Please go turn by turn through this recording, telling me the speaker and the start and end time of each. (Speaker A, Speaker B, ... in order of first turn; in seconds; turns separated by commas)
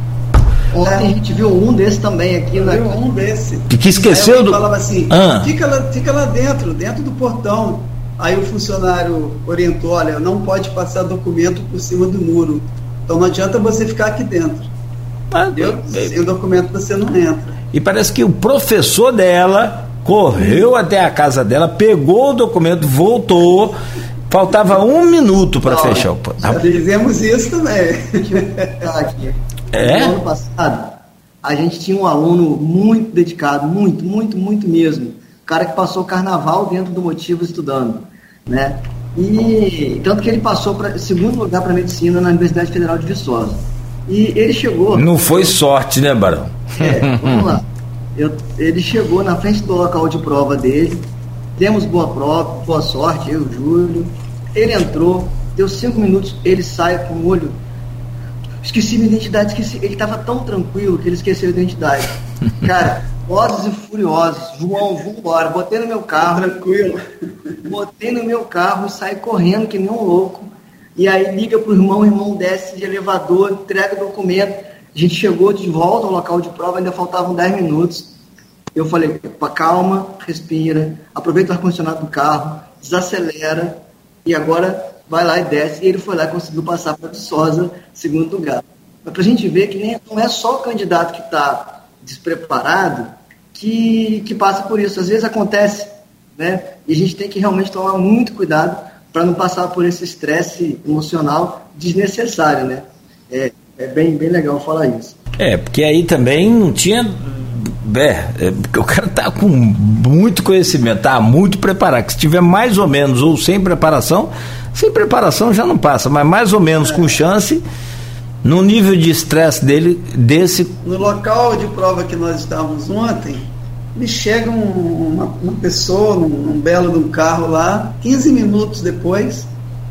Speaker A: 0.7-3.0, Speaker B: 2.6-14.7, Speaker C: 3.7-5.5, Speaker C: 15.3-16.1, Speaker B: 15.6-17.6, Speaker C: 17.7-23.8, Speaker C: 24.3-26.8, Speaker A: 25.6-26.1, Speaker B: 26.4-28.8, Speaker A: 28.8-45.5, Speaker C: 29.7-30.2, Speaker C: 44.9-47.6, Speaker A: 46.8-51.1, Speaker A: 51.6-57.6, Speaker A: 58.6-66.5, Speaker B: 66.2-67.5, Speaker A: 67.7-78.1, Speaker A: 78.8-105.2, Speaker C: 105.4-117.6, Speaker C: 118.4-120.8, Speaker B: 120.8-129.5